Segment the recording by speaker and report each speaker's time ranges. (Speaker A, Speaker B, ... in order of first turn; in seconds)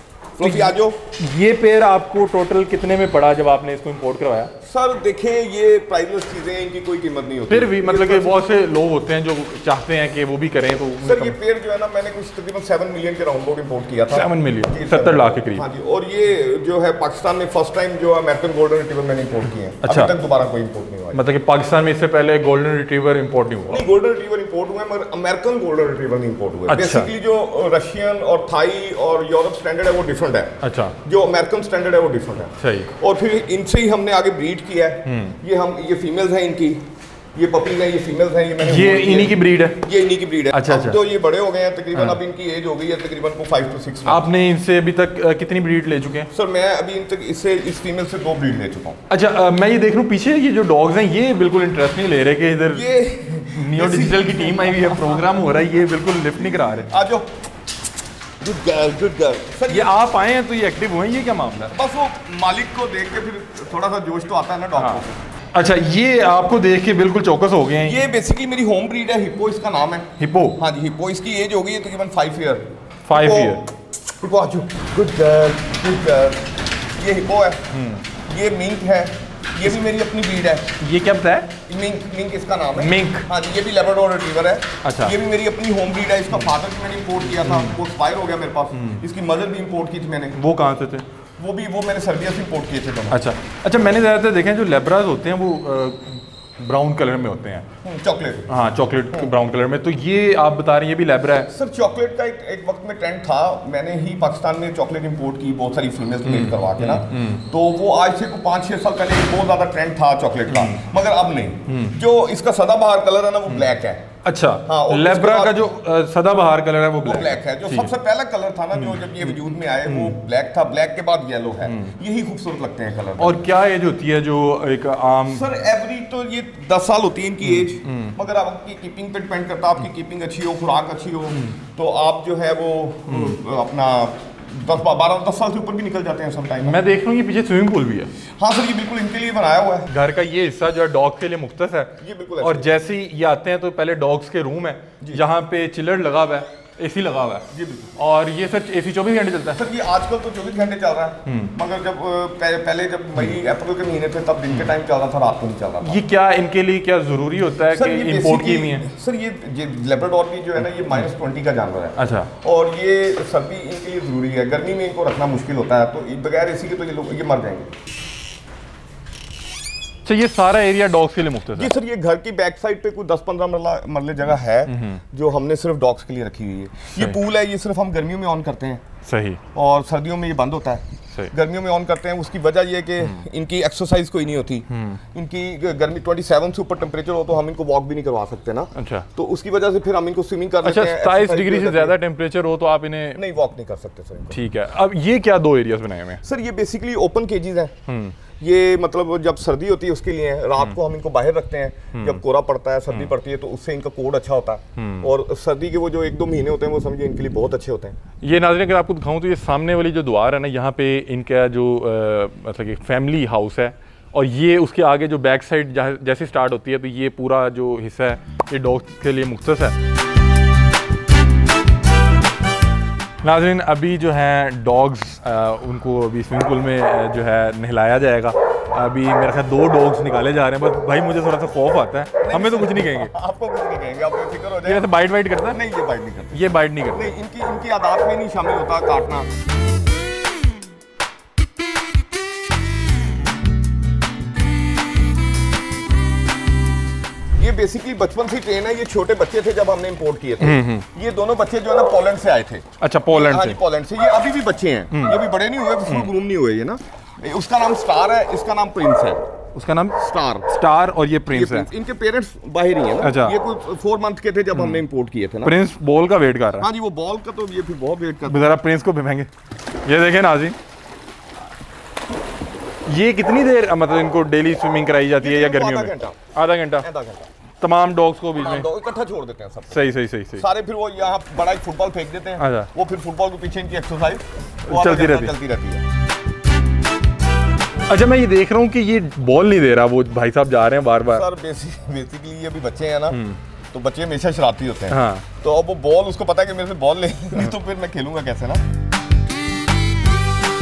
Speaker A: 0.4-1.0, 4.6-8.4, 11.0-21.2, 23.7-30.5, 31.1-36.8, 37.4-44.3, 46.3-49.0, 52.7-55.2, 56.4-57.3, 58.4-59.9, 61.7-65.2, 67.8-73.6, 74.2-77.6, 78.2-80.7, 81.7-90.4, 91.4-93.2, 97.8-98.6, 99.1-99.3, 101.5-114.0, 114.7-115.6, 117.0-123.4, 125.3-136.8, 138.4-139.9, 142.0-142.7, 147.5-148.0, 149.6-156.0, 157.7-167.7, 171.5-178.8, 179.6-192.0, 193.2-194.4, 196.2-197.7, 198.4-207.9, 232.2-234.9, 235.4-239.3, 247.4-259.2, 260.0-260.5, 261.3-265.6, 266.6-268.5, 275.2-276.2, 276.8-277.3, 278.4-285.8, 291.1-293.2, 293.7-298.6
Speaker B: 0.4-4.5, 7.5-11.4, 14.1-15.6, 19.8-20.1, 21.1-23.9, 26.7-27.1, 30.6-31.0, 32.6-32.9, 35.0-35.4, 38.6-39.8, 40.5-41.0, 44.1-46.3, 49.1-52.9, 53.5-56.9, 59.7-61.8, 65.5-68.0, 70.2-70.6, 73.1-73.6, 77.7-78.0, 80.8-81.5, 82.8-83.3, 84.8-85.2, 87.4-87.8, 88.8-89.0, 90.4-91.1, 93.1-97.7, 98.5-101.5, 106.2-107.4, 110.5-110.8, 111.7-112.0, 114.2-117.9, 118.8-120.2, 121.7-121.9, 123.2-125.5, 127.5-128.2, 133.1-133.4, 136.6-138.1, 139.9-147.5, 148.0-149.6, 151.3-151.5, 155.8-158.9, 162.0-162.3, 170.1-171.7, 174.7-175.0, 179.1-179.4, 184.7-185.0, 188.8-189.1, 190.6-193.2, 194.3-196.2, 197.9-198.2, 201.9-202.2, 204.8-205.1, 208.2-219.8, 223.2-233.1, 234.7-235.6, 236.3-237.1, 250.4-250.8, 252.8-253.6, 254.9-255.2, 259.6-261.7, 263.0-263.4, 264.5-264.8, 265.4-266.7, 268.3-269.3, 269.8-270.6, 272.9-276.9, 277.6-278.7, 279.7-280.4, 282.4-282.7, 284.7-285.3, 287.9-291.3, 293.1-293.4, 294.9-295.2